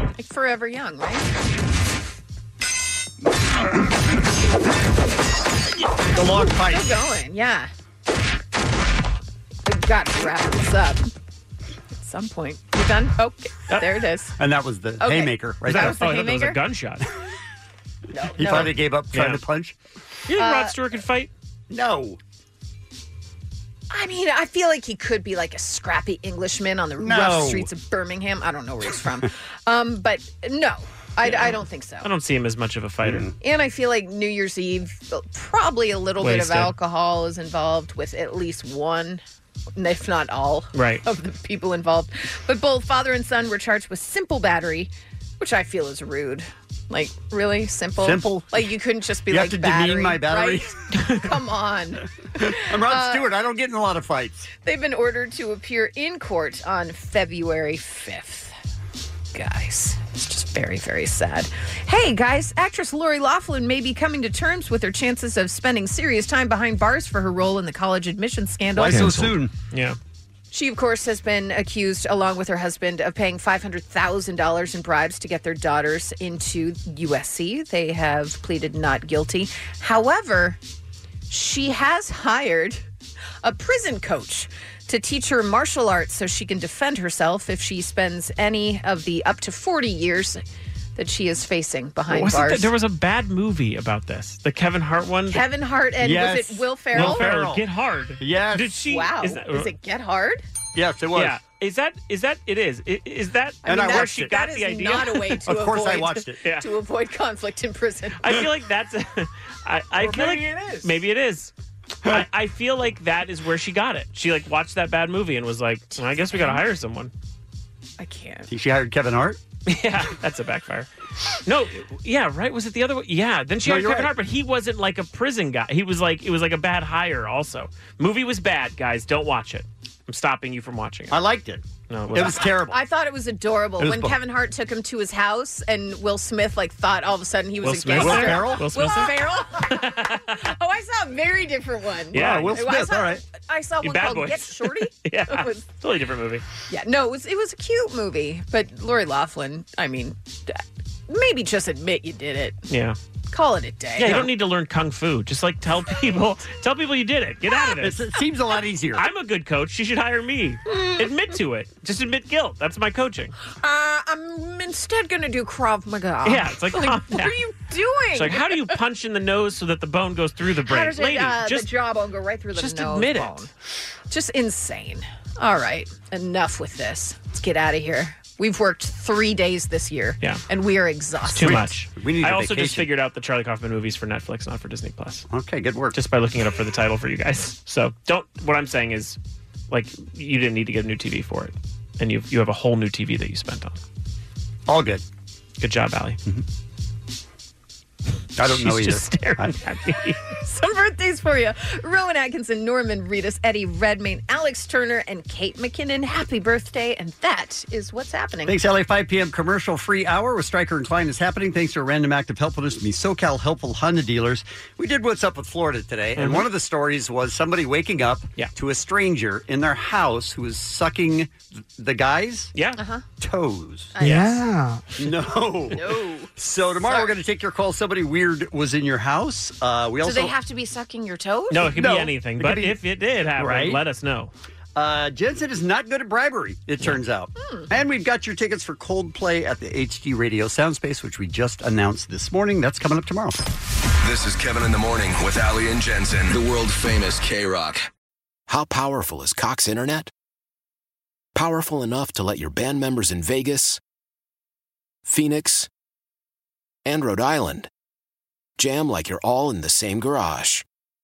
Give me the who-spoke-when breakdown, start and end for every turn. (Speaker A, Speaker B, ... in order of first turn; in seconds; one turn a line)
Speaker A: 0.2-1.3
Speaker B: 6.1-6.9
Speaker A: 6.5-7.7
Speaker A: 9.7-11.1
Speaker A: 12.0-14.4
Speaker B: 14.4-16.0
Speaker A: 15.0-16.6
Speaker C: 15.7-17.1
Speaker A: 18.1-18.7
Speaker B: 18.4-19.8
Speaker C: 19.1-19.4
Speaker C: 20.3-21.3
Speaker A: 20.4-20.7
Speaker B: 21.7-22.2
Speaker A: 23.9-32.1
Speaker B: 27.0-27.7
Speaker C: 31.2-33.3
Speaker B: 33.0-33.3
Speaker A: 33.4-39.2
Speaker C: 36.2-36.7
Speaker A: 39.8-53.3
Speaker C: 40.8-41.0
Speaker B: 48.0-48.7
Speaker B: 49.3-50.7
Speaker C: 51.0-51.2
Speaker B: 52.4-54.5
Speaker A: 54.6-58.5
Speaker A: 59.3-69.3
Speaker B: 68.8-69.5
Speaker C: 68.9-69.2
Speaker C: 69.7-70.0
Speaker A: 70.5-80.6
Speaker A: 81.3-82.8
Speaker A: 83.4-90.4
Speaker A: 91.0-92.7
Speaker C: 92.1-95.4
Speaker A: 95.3-97.3
Speaker B: 96.0-97.6
Speaker C: 96.9-99.7
Speaker B: 98.2-98.8
Speaker A: 98.9-100.4
Speaker B: 100.8-101.4
Speaker C: 101.2-105.4
Speaker A: 103.6-108.4
Speaker B: 103.7-104.3
Speaker B: 105.5-106.4
Speaker C: 106.4-106.7
Speaker C: 108.2-111.5
Speaker A: 110.1-110.9
Speaker C: 112.0-117.1
Speaker A: 116.0-116.6
Speaker A: 118.0-118.5
Speaker B: 118.5-119.4
Speaker C: 119.7-120.9
Speaker C: 121.5-131.2
Speaker B: 123.6-124.1
Speaker B: 131.1-132.8
Speaker C: 131.9-132.4
Speaker A: 132.7-145.7
Speaker B: 133.8-134.2
Speaker C: 137.6-139.1
Speaker B: 137.9-138.7
Speaker C: 139.7-140.4
Speaker B: 142.1-143.2
Speaker C: 142.1-142.6
Speaker C: 143.8-146.4
Speaker A: 146.7-152.6
Speaker C: 152.7-153.0
Speaker A: 153.3-154.3
Speaker C: 154.0-158.0
Speaker B: 157.8-159.1
Speaker C: 158.9-163.3
Speaker A: 160.7-161.1
Speaker A: 163.5-168.6
Speaker C: 166.2-167.4
Speaker C: 168.1-171.7
Speaker A: 170.7-173.5
Speaker C: 172.6-173.5
Speaker A: 174.1-181.7
Speaker C: 181.3-185.2
Speaker B: 181.4-182.9
Speaker B: 185.3-186.0
Speaker C: 185.9-189.2
Speaker C: 189.7-193.8
Speaker B: 194.7-195.0
Speaker C: 195.6-196.2
Speaker B: 198.4-199.6
Speaker C: 198.4-200.2
Speaker A: 200.4-208.6
Speaker B: 208.5-222.5
Speaker C: 216.2-216.5
Speaker A: 222.8-223.0
Speaker B: 223.2-223.9
Speaker A: 223.9-224.5
Speaker C: 224.0-224.4
Speaker B: 225.0-230.3
Speaker A: 225.7-227.1
Speaker A: 230.0-231.7
Speaker C: 231.5-234.3
Speaker B: 231.6-232.8
Speaker B: 233.4-233.8
Speaker B: 234.8-243.4
Speaker A: 237.4-237.7
Speaker D: 244.0-247.9
Speaker E: 248.5-250.1
Speaker E: 251.3-253.8
Speaker E: 255.1-255.7
Speaker E: 256.9-257.7
Speaker E: 258.6-260.6